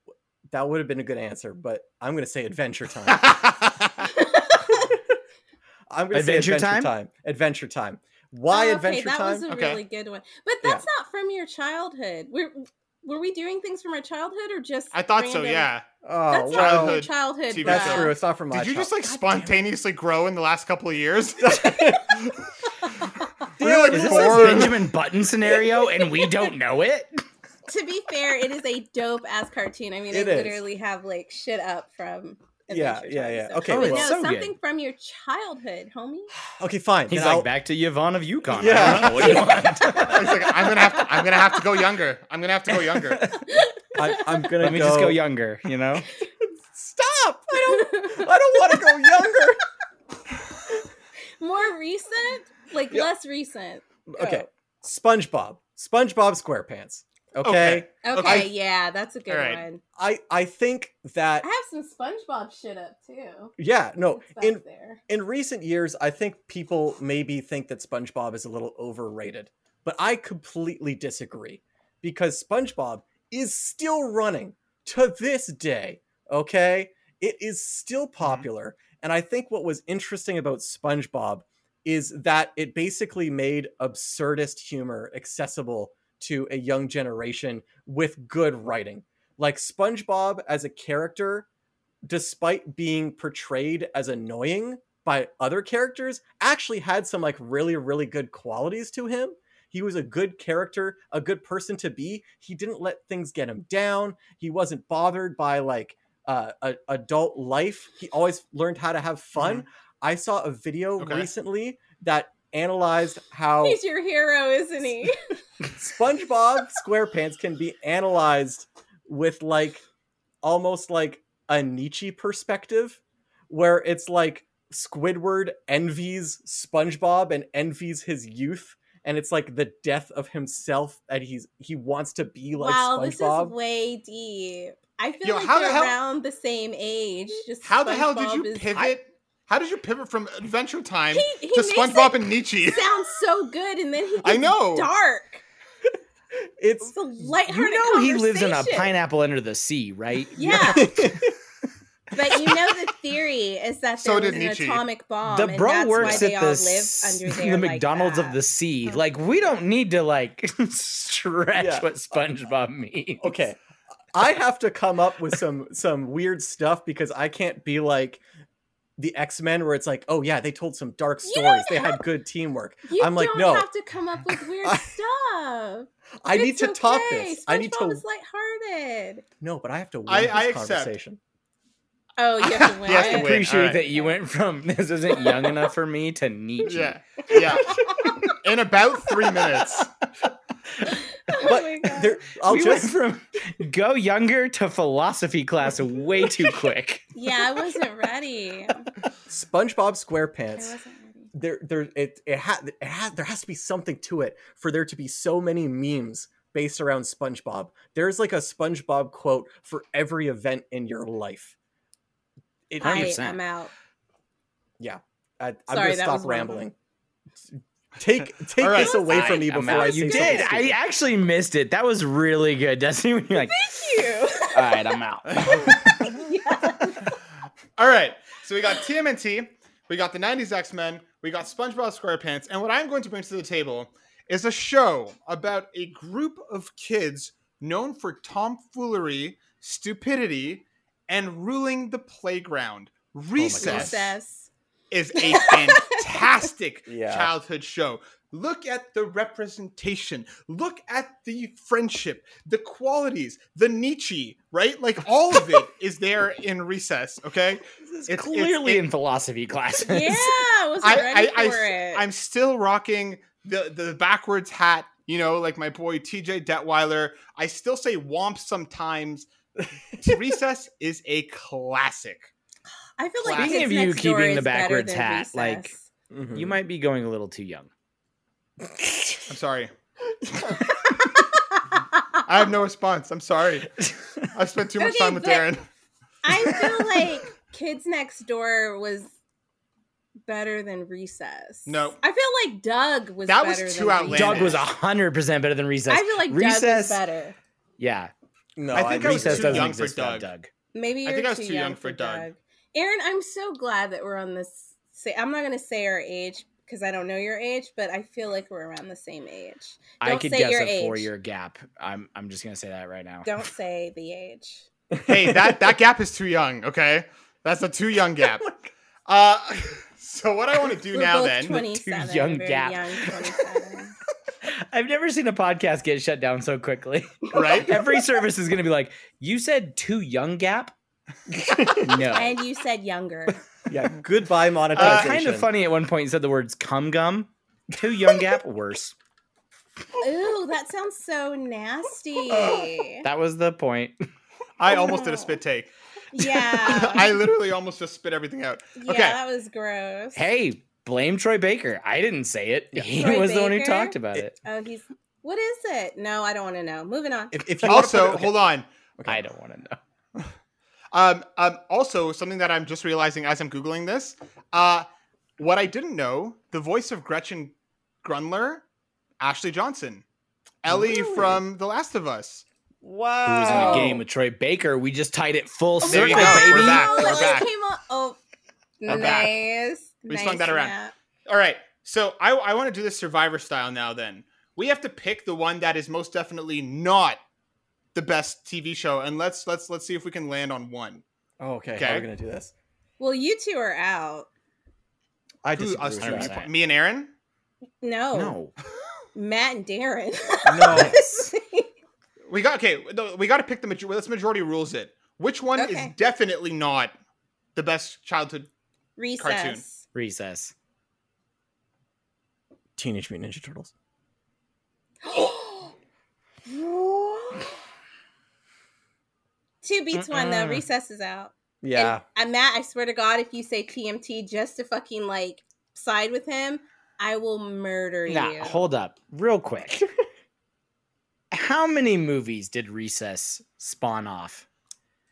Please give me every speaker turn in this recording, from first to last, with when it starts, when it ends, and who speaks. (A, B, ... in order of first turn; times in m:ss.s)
0:00.5-0:03.4 A
0:03.1-0:04.1 B
0:04.1-0:04.9 C
0:04.7-0:05.0 A
0:05.9-0:09.5 A
0:06.1-0:06.9 D
0:08.5-0:15.7 C
0:09.5-0:09.8 B
0:14.9-0:15.8 B
0:16.0-0:17.0 A
0:16.3-0:18.2 C
0:16.5-0:21.9 B
0:17.6-0:19.6 A
0:21.4-0:22.2 A
0:23.6-0:24.9 A
0:23.6-0:24.8 B
0:23.7-0:27.2 D
0:27.7-0:36.3 C
0:30.1-0:30.6 A
0:32.7-0:34.1 A
0:33.7-0:34.5 D
0:36.6-0:37.5 A
0:37.1-0:40.5 D
0:38.5-0:40.1 A
0:38.6-0:43.3 B
0:43.0-0:43.4 D
0:43.4-0:44.4 C
0:43.9-0:45.2 A
0:44.6-0:46.1 D
0:46.4-0:49.6 A
0:47.5-0:49.3 C
0:51.4-0:54.4 C
0:54.1-0:58.5 A
0:57.4-0:58.5 B
0:58.0-0:59.8 C
0:59.3-0:59.6 B
1:00.0-1:01.5 A
1:01.4-1:03.5 C
1:03.6-1:31.5 A
1:04.2-1:05.0 C
1:18.2-1:18.5 B
1:32.0-1:53.8 A
1:49.4-1:49.6 B
1:51.0-1:51.3 B
1:53.6-1:55.1 C
1:55.7-1:59.8 A
2:00.4-2:13.5 A
2:12.6-2:18.9 C
2:15.2-2:16.0 B
2:17.6-2:22.9 B
2:21.1-2:25.4 C
2:24.2-2:24.9 B
2:26.4-2:26.9 A
2:26.8-2:28.9 C
2:27.4-2:30.9 D
2:30.3-2:31.0 C
2:30.6-2:31.3 A
2:32.1-2:38.4 C
2:34.0-2:34.8 B
2:35.2-2:43.4 D
2:36.0-2:36.3 A
2:41.5-2:41.9 A
2:43.2-2:43.6 A
2:44.1-2:48.2 A
2:49.0-2:53.7 A
2:51.2-2:52.0 C
2:52.9-2:59.2 C
2:54.6-2:54.9 A
2:56.2-2:58.0 A
2:59.4-3:01.2 A
3:00.1-3:00.9 B
3:02.2-3:04.2 C
3:02.4-3:03.8 B
3:02.9-3:06.9 D
3:05.2-3:05.6 C
3:06.6-3:09.9 B
3:07.3-3:08.1 A
3:07.4-3:08.3 C
3:10.8-3:12.2 C
3:11.4-3:13.0 A
3:12.4-3:17.1 D
3:17.1-3:18.9 C
3:19.3-3:20.8 A
3:20.5-3:21.3 C
3:21.3-3:31.5 A
3:32.7-3:33.2 A
3:32.8-3:33.7 C
3:32.8-3:33.4 D
3:34.8-3:36.7 A
3:35.7-3:36.6 C
3:38.0-3:40.8 A
3:38.6-3:39.0 B
3:38.7-3:40.6 C
3:38.9-3:46.1 D
3:43.3-3:45.0 C
3:45.4-3:45.8 B
3:45.5-3:47.2 C
3:47.8-4:04.1 B
4:03.3-4:04.1 A
4:03.6-4:04.5 C
4:04.9-4:18.8 B
4:05.2-4:06.0 C
4:06.9-4:07.3 A
4:17.9-4:20.4 D
4:19.8-4:22.0 C
4:20.8-4:29.3 B
4:30.0-4:32.3 B
4:33.0-4:35.8 C
4:33.2-4:33.7 B
4:33.3-4:35.7 D
4:36.1-4:36.6 A
4:36.3-4:37.7 D
4:39.3-4:39.7 B
4:40.3-4:40.7 B
4:42.2-4:43.8 B
4:44.3-4:45.6 B
4:44.8-4:45.5 C
4:46.2-4:49.1 C
4:50.3-4:54.6 C
4:51.6-4:52.0 B
4:53.3-4:54.6 B
4:54.1-4:57.0 D
4:55.9-4:57.4 C
4:57.8-4:58.1 D
4:58.6-4:59.7 A
4:58.7-5:00.5 D
4:58.7-5:00.3 B
5:00.7-5:11.1 C
5:01.0-5:02.3 B
5:10.0-5:13.3 D
5:13.2-5:14.6 C
5:14.9-5:15.5 A
5:15.0-5:18.5 B
5:19.1-5:21.6 B
5:20.9-5:23.9 C
5:21.5-5:23.2 D
5:24.4-5:30.7 D
5:27.3-5:27.8 B
5:27.3-5:28.0 C
5:31.3-5:32.0 A
5:31.8-5:32.4 D
5:32.1-5:33.4 C
5:33.7-5:35.5 A
5:34.7-5:39.0 D
5:34.8-5:35.1 B
5:40.0-5:43.0 C
5:42.3-5:43.9 D
5:44.6-5:45.7 B
5:44.7-5:45.4 C
5:46.1-5:47.2 C
5:46.2-5:49.2 B
5:48.8-5:50.2 C
5:50.1-5:54.3 D
5:52.9-5:57.4 C
5:57.3-5:58.3 A
5:57.6-5:58.7 B
5:59.0-5:59.3 A
5:59.0-5:59.8 D
6:00.9-6:04.9 B
6:05.4-6:08.6 B
6:09.2-6:10.0 B
6:10.6-6:12.4 B
6:10.7-6:11.4 A
6:12.8-6:14.0 A
6:13.2-6:17.4 D
6:13.5-6:13.9 B
6:13.5-6:13.9 C
6:15.8-6:18.2 C
6:15.8-6:17.5 B
6:18.8-6:20.9 C
6:18.9-6:19.3 D
6:18.9-6:19.3 B
6:20.1-6:20.7 B
6:21.3-6:27.2 B
6:27.9-6:31.0 B
6:31.4-6:32.5 A
6:31.8-6:32.1 B
6:33.0-6:34.3 C
6:35.4-6:36.4 A
6:35.6-6:37.1 B
6:36.0-6:36.5 D
6:37.8-6:38.4 C
6:38.1-6:38.5 D
6:39.1-6:41.7 C
6:40.4-6:41.0 A
6:40.7-6:41.1 D
6:42.3-6:46.9 B
6:45.6-6:45.9 C
6:47.5-6:48.5 B
6:49.0-6:49.8 C
6:49.2-6:49.6 B
6:49.9-6:50.5 D
6:52.8-6:53.7 A
6:55.0-6:55.7 C
6:56.5-6:57.5 C
6:59.6-7:08.7 C
6:59.9-7:00.6 D
7:01.6-7:02.0 A
7:08.1-7:09.8 D
7:11.3-7:14.4 D